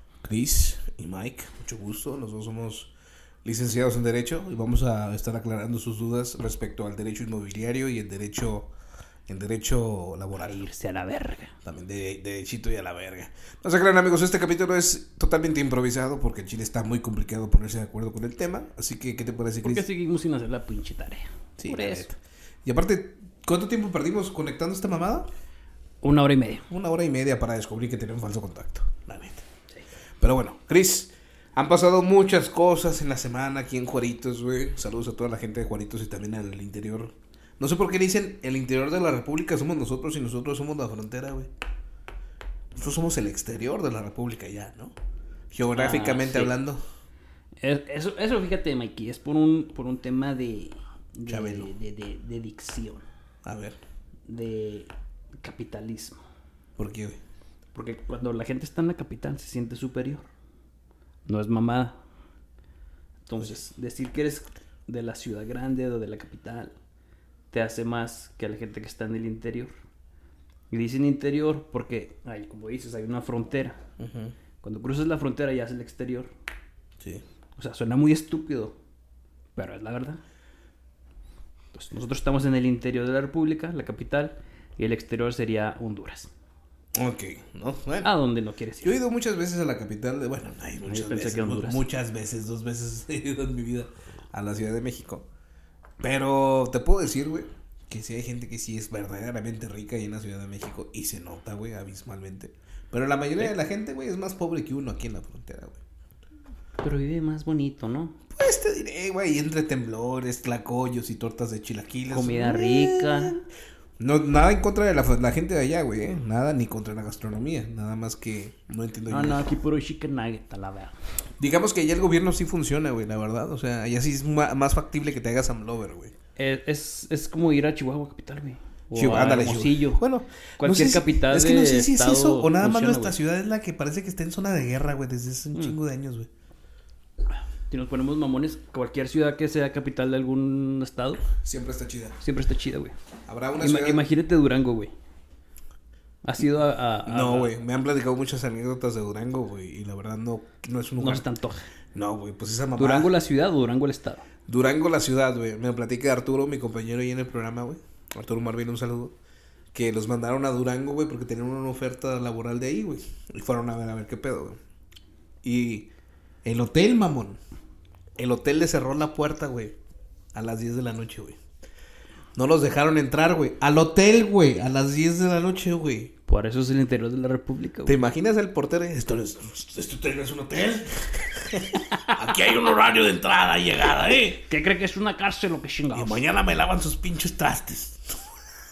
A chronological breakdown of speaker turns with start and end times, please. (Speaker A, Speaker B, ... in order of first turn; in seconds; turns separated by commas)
Speaker A: 0.2-2.9, Speaker A: 3.5-8.7, Speaker A: 9.3-10.6, Speaker B: 10.4-11.6, Speaker A: 11.6-19.9, Speaker B: 19.6-22.1, Speaker A: 21.6-25.3, Speaker B: 26.0-26.7, Speaker A: 26.7-29.5, Speaker A: 30.2-41.5, Speaker A: 42.8-44.9, Speaker A: 45.5-46.9, Speaker B: 45.7-46.5, Speaker B: 47.6-53.1, Speaker A: 51.3-51.7, Speaker A: 53.5-53.8, Speaker B: 54.3-56.2, Speaker A: 56.8-57.2, Speaker B: 57.7-60.3, Speaker B: 61.3-62.0, Speaker B: 63.3-66.8, Speaker B: 67.5-69.7, Speaker B: 70.7-73.8, Speaker A: 74.0-74.3, Speaker B: 74.6-76.3, Speaker B: 77.6-78.8, Speaker B: 79.5-80.2, Speaker B: 81.7-86.3, Speaker A: 87.0-88.1, Speaker B: 88.0-89.0, Speaker A: 88.8-95.3, Speaker B: 90.9-91.8, Speaker A: 96.0-105.8, Speaker B: 106.8-108.2, Speaker A: 108.3-113.4, Speaker B: 112.1-113.4, Speaker A: 114.0-119.5, Speaker B: 119.1-121.0, Speaker A: 121.4-126.1, Speaker B: 126.4-130.0, Speaker A: 128.9-136.3, Speaker B: 130.6-133.2, Speaker B: 137.3-141.2, Speaker A: 141.4-142.2, Speaker B: 142.2-142.9, Speaker A: 143.3-144.0, Speaker B: 143.6-144.9, Speaker B: 146.2-147.5, Speaker A: 147.1-151.2, Speaker B: 151.0-151.7, Speaker A: 151.9-153.1, Speaker B: 152.8-154.3, Speaker A: 154.5-159.2, Speaker A: 159.7-164.6, Speaker A: 165.4-165.9, Speaker A: 166.4-167.4, Speaker A: 168.2-169.8, Speaker A: 170.3-171.4, Speaker A: 172.4-176.1, Speaker B: 176.3-177.9, Speaker A: 177.9-184.4, Speaker B: 184.4-186.2, Speaker A: 185.9-188.0